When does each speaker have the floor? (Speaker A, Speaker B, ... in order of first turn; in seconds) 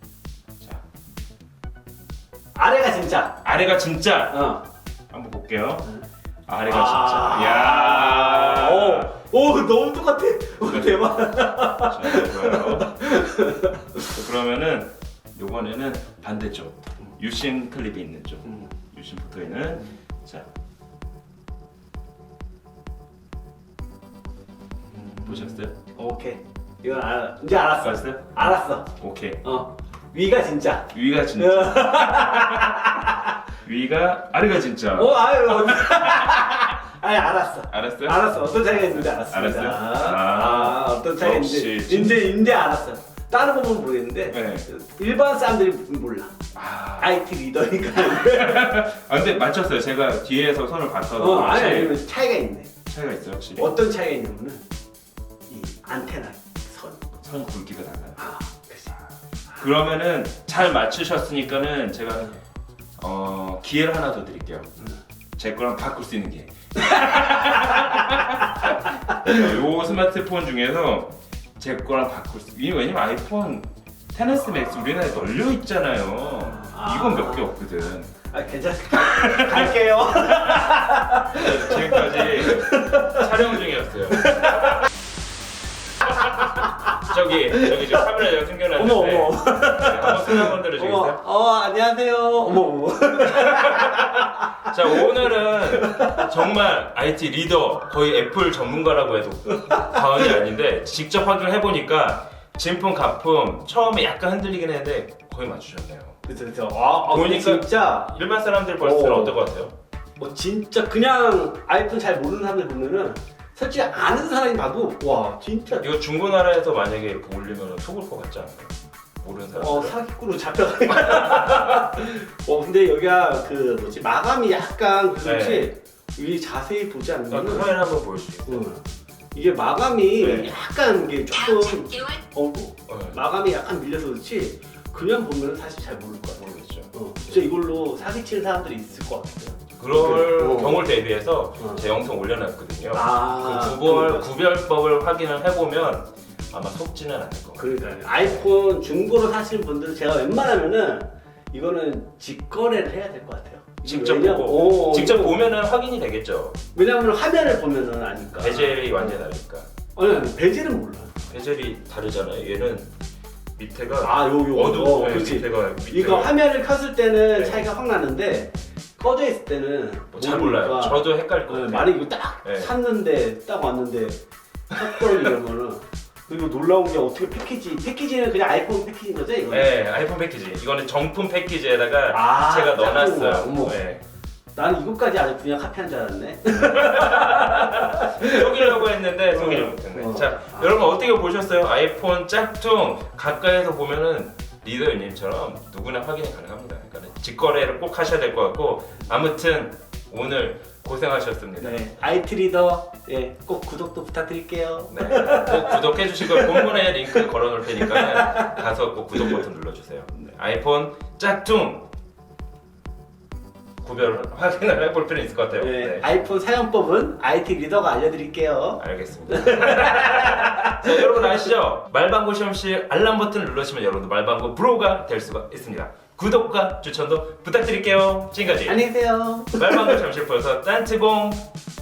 Speaker A: 2.5-3.4, 4.3-4.6, 6.7-14.1, 25.2-28.9, 29.4-33.3, 34.9-46.3, 47.0-48.9, 51.1-52.7, 53.5-54.6, 55.5-57.0, 58.2-59.0, 67.0-68.3, 69.2-69.5, 76.5-77.5, 78.3-84.8, 87.5-88.1, 88.8-96.5, 99.7-100.3, 106.2-108.1, 108.8-109.4, 110.2-115.9, 119.5-127.8, 128.5-128.8, 129.3-140.9, 142.9-144.3, 147.6-155.5, 156.7-159.2, 159.9-161.2, 164.0-174.2, 174.7-179.7, 182.1-183.8, 184.5-190.9, 201.6-208.5, 209.2-209.4, 215.6-221.4, 228.6-230.0
Speaker B: 3.4-5.9, 6.5-9.2, 10.6-13.0, 14.0-20.5, 25.0-25.8, 27.8-29.5, 30.9-36.6, 37.7-42.4, 44.3-44.7, 46.5-47.2, 48.0-52.0, 52.9-53.8, 57.2-58.2, 59.5-62.4, 63.0-64.7, 65.4-78.1, 79.0-79.8, 81.3-84.8, 86.0-91.2, 93.3-106.2, 107.0-109.8, 115.8-120.0, 125.2-125.7, 127.3-128.7, 130.2-130.6, 132.9-133.2, 136.4-137.5, 139.8-148.4, 153.8-156.6, 158.4-159.7, 161.3-162.9, 163.6-166.3, 167.3-167.6, 170.1-172.7, 179.5-184.0, 186.5-202.1, 204.9-211.9, 213.8-216.1, 218.8-228.9, 229.5-231.5